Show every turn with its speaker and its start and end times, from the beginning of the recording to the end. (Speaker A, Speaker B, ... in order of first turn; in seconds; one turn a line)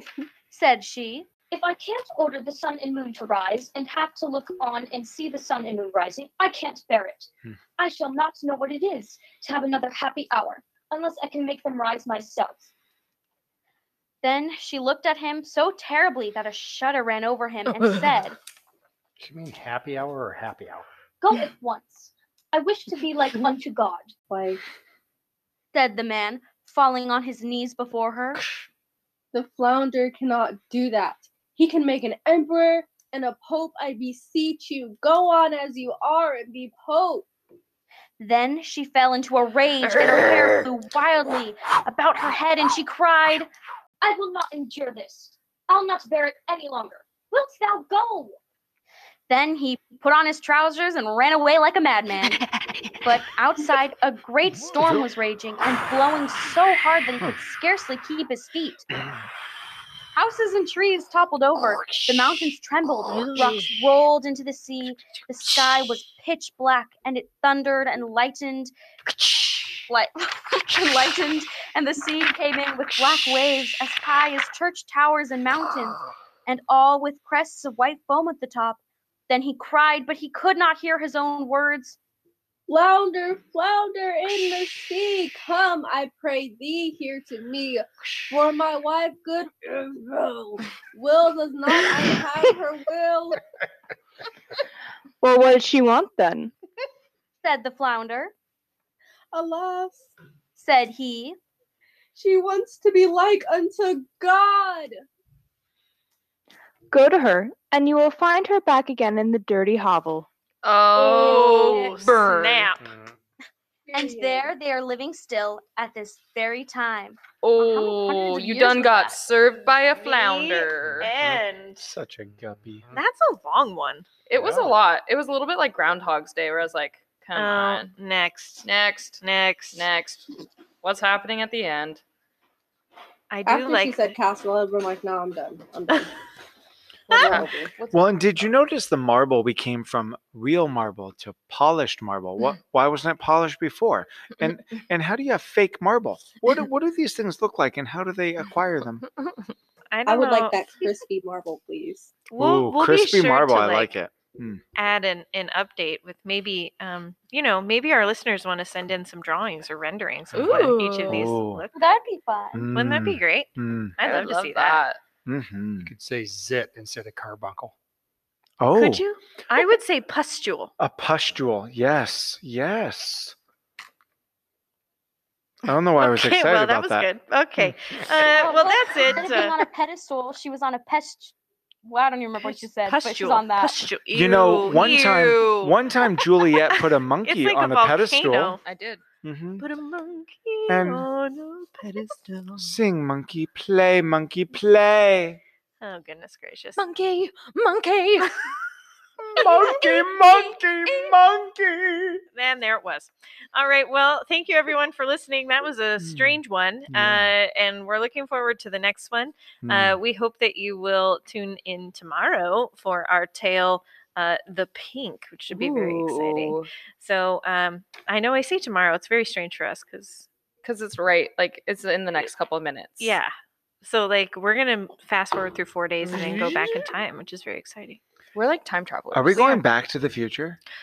Speaker A: 0.5-1.3
Speaker B: 1.5-12.7
Speaker A: 14.2-18.4
Speaker C: 19.2-20.9
Speaker B: 21.2-24.1
Speaker D: 24.3-24.6
Speaker A: 25.7-28.4
Speaker D: 29.3-37.2
Speaker A: 38.2-43.5
Speaker B: 44.0-48.4
Speaker A: 49.3-52.4
Speaker A: 53.0-58.9
Speaker A: 60.1-68.7
Speaker A: 69.9-82.0
Speaker D: 82.7-93.4
Speaker E: 95.2-96.5
Speaker A: 97.4-98.3
Speaker D: 99.3-100.1
Speaker A: 100.5-101.4
Speaker D: 102.1-104.9
Speaker E: 106.9-110.3
Speaker F: 110.6-112.7
Speaker G: 110.9-112.8
Speaker A: 111.2-112.2
Speaker C: 112.8-113.1
Speaker D: 113.9-114.5
Speaker A: 113.9-119.2
Speaker F: 117.4-121.1
Speaker G: 119.9-121.9
Speaker C: 120.8-121.4
Speaker H: 121.2-122.8
Speaker C: 122.3-123.0
Speaker G: 122.9-124.0
Speaker F: 124.3-127.9
Speaker C: 124.3-124.8
Speaker G: 127.3-128.7
Speaker F: 128.6-129.2
Speaker G: 129.2-129.9
Speaker F: 129.7-130.3
Speaker F: 130.8-132.0
Speaker G: 133.3-134.2
Speaker D: 133.4-136.1
Speaker F: 137.1-138.5
Speaker G: 137.1-137.4
Speaker D: 137.2-137.7
Speaker H: 137.9-149.1
Speaker G: 149.9-150.6
Speaker D: 150.1-152.2
Speaker G: 152.3-153.9
Speaker H: 152.4-154.6
Speaker G: 154.8-161.7
Speaker F: 160.3-161.3
Speaker C: 160.3-160.7
Speaker H: 161.1-161.6
Speaker A: 161.7-162.7
Speaker H: 162.5-163.9
Speaker G: 162.7-164.8
Speaker F: 164.0-165.0
Speaker H: 165.2-165.9
Speaker C: 165.8-167.7
Speaker H: 168.6-169.0
Speaker G: 168.7-170.7
Speaker H: 170.8-173.3
Speaker H: 175.7-178.2
Speaker G: 176.0-179.6
Speaker A: 178.3-183.9
Speaker G: 182.4-188.6
Speaker H: 184.1-188.6
Speaker F: 188.6-189.0
Speaker H: 189.2-189.6
Speaker G: 189.6-192.7
Speaker H: 190.7-191.1
Speaker H: 192.6-195.4
Speaker G: 195.8-196.8
Speaker F: 196.8-198.3
Speaker H: 199.4-202.2
Speaker G: 199.4-199.8
Speaker G: 202.3-220.3
Speaker H: 206.0-207.3
Speaker H: 209.6-210.0
Speaker F: 215.5-216.7
Speaker F: 220.6-223.2
Speaker G: 223.0-228.0
Speaker F: 226.0-226.8
Speaker H: 226.1-226.6
Speaker F: 228.3-229.6
Speaker H: 229.1-230.6
Speaker G: 229.3-229.6